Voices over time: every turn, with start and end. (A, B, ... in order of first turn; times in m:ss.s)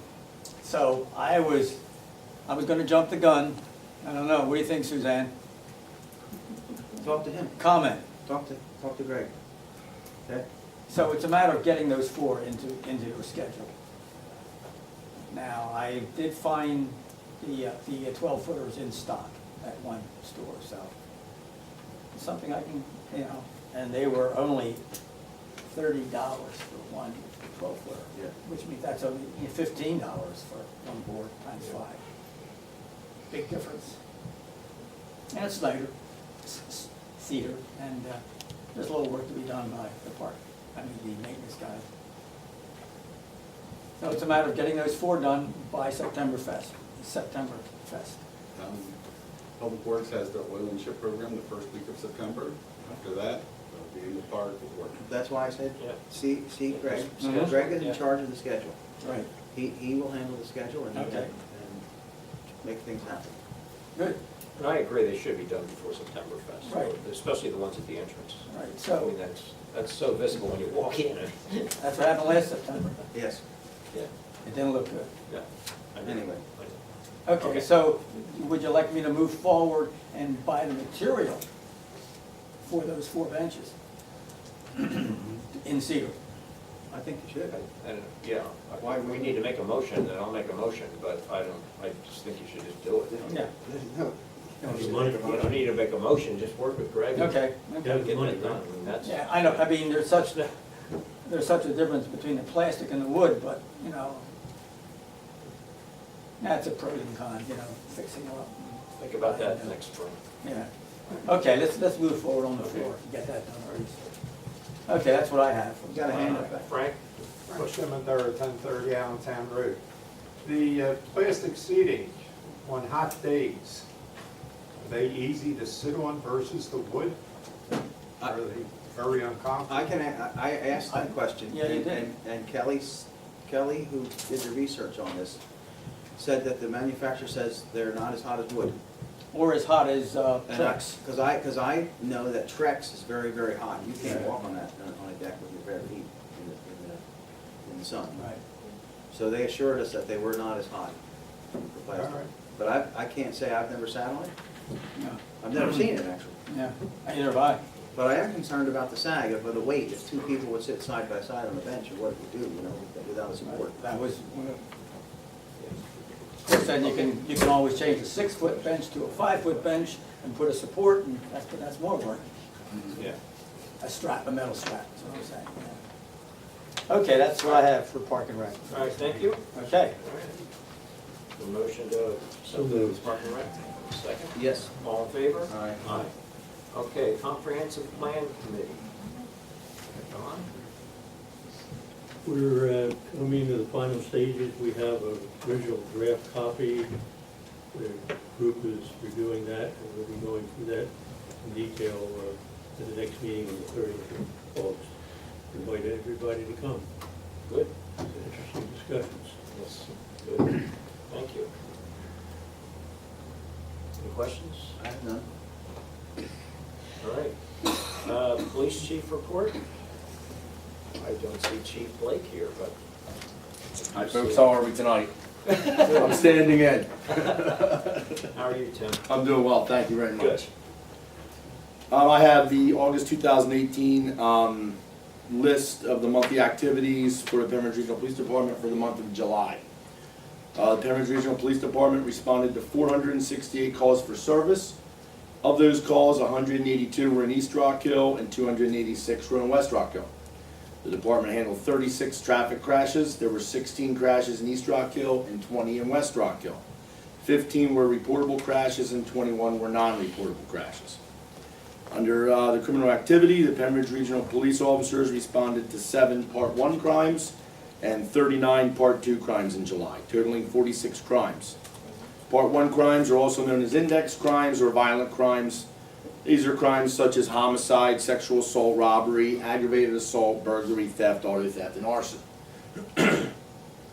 0:00.6-0:01.8 A
0:02.4-0:05.3 A
0:07.0-0:07.6 B
0:07.6-0:08.0 A
0:08.2-0:09.3 B
0:10.9-0:13.7 A
0:15.3-0:20.9 A
0:22.1-0:24.8 A
0:25.7-0:32.0 A
0:33.3-0:34.0 A
0:35.3-0:38.2 A
0:38.7-0:41.9 A
0:44.0-0:48.2 A
0:48.5-0:49.0 C
0:49.6-0:55.0 C
0:55.0-0:58.8 B
0:56.7-0:58.0 D
0:57.2-0:57.5 A
0:59.0-0:59.3 A
0:59.5-1:01.8 B
1:00.9-1:01.3 A
1:02.6-1:03.3 B
1:04.6-1:11.7 D
1:06.7-1:06.9 A
1:08.5-1:09.1 A
1:11.8-1:13.0 A
1:13.1-1:13.4 B
1:14.4-1:15.1 A
1:15.3-1:16.8 D
1:16.0-1:16.4 B
1:17.2-1:21.4 A
1:17.3-1:17.6 D
1:22.6-1:23.7 A
1:24.8-1:26.1 A
1:26.9-1:27.6 B
1:27.5-1:33.2 D
1:28.8-1:29.4 B
1:33.1-1:35.7 B
1:33.2-1:33.5 A
1:34.6-1:35.2 A
1:34.6-1:35.3 E
1:35.2-1:39.7 D
1:37.1-1:38.0 A
1:37.8-1:38.6 E
1:39.0-1:40.5 A
1:41.1-1:44.3 A
1:46.4-1:49.7 A
1:49.0-1:50.2 D
1:50.4-1:50.7 A
1:51.2-1:54.1 A
1:52.6-1:52.9 D
1:54.8-1:56.5 A
1:55.9-1:56.7 B
1:56.1-1:57.0 D
1:57.5-1:59.8 F
2:00.4-2:03.8 F
2:04.8-2:07.2 F
2:08.2-2:09.9 F
2:09.6-2:15.4 B
2:10.9-2:12.1 A
2:16.2-2:18.8 B
2:19.3-2:21.0 A
2:20.5-2:27.0 B
2:27.6-2:28.3 B
2:28.2-2:28.4 A
2:29.1-2:31.0 B
2:31.5-2:34.3 B
2:32.0-2:32.3 F
2:35.0-2:35.2 A
2:35.4-2:36.4 B
2:36.5-2:37.6 A
2:37.9-2:43.8 B
2:43.4-2:44.6 A
2:45.6-2:45.8 D
2:46.4-2:52.2 A
2:46.6-2:47.2 D
2:47.8-2:48.7 D
2:53.8-2:55.8 A
2:56.9-2:58.7 A
2:58.7-3:00.3 D
2:59.5-2:59.9 A
3:01.4-3:06.1 D
3:02.5-3:03.1 E
3:04.3-3:04.7 B
3:05.5-3:05.8 B
3:06.7-3:08.9 D
3:09.9-3:10.5 D
3:12.2-3:26.9 E
3:27.4-3:27.8 D
3:28.0-3:29.4 E
3:29.5-3:31.5 D
3:34.0-3:34.7 D
3:34.8-3:35.2 B
3:37.0-3:39.6 D
3:40.9-3:42.8 D
3:43.8-3:44.6 D
3:43.9-3:48.3 G
3:45.6-3:46.1 D
3:48.3-3:49.1 D
3:49.0-3:50.5 G
3:50.2-3:50.4 D
3:51.9-3:59.6 G
4:00.5-4:04.8 G
4:05.4-4:10.1 G
4:10.8-4:16.6 G
4:17.2-4:21.0 G
4:21.9-4:31.5 G
4:32.3-4:35.7 G
4:36.2-4:42.2 G
4:43.0-4:43.3 G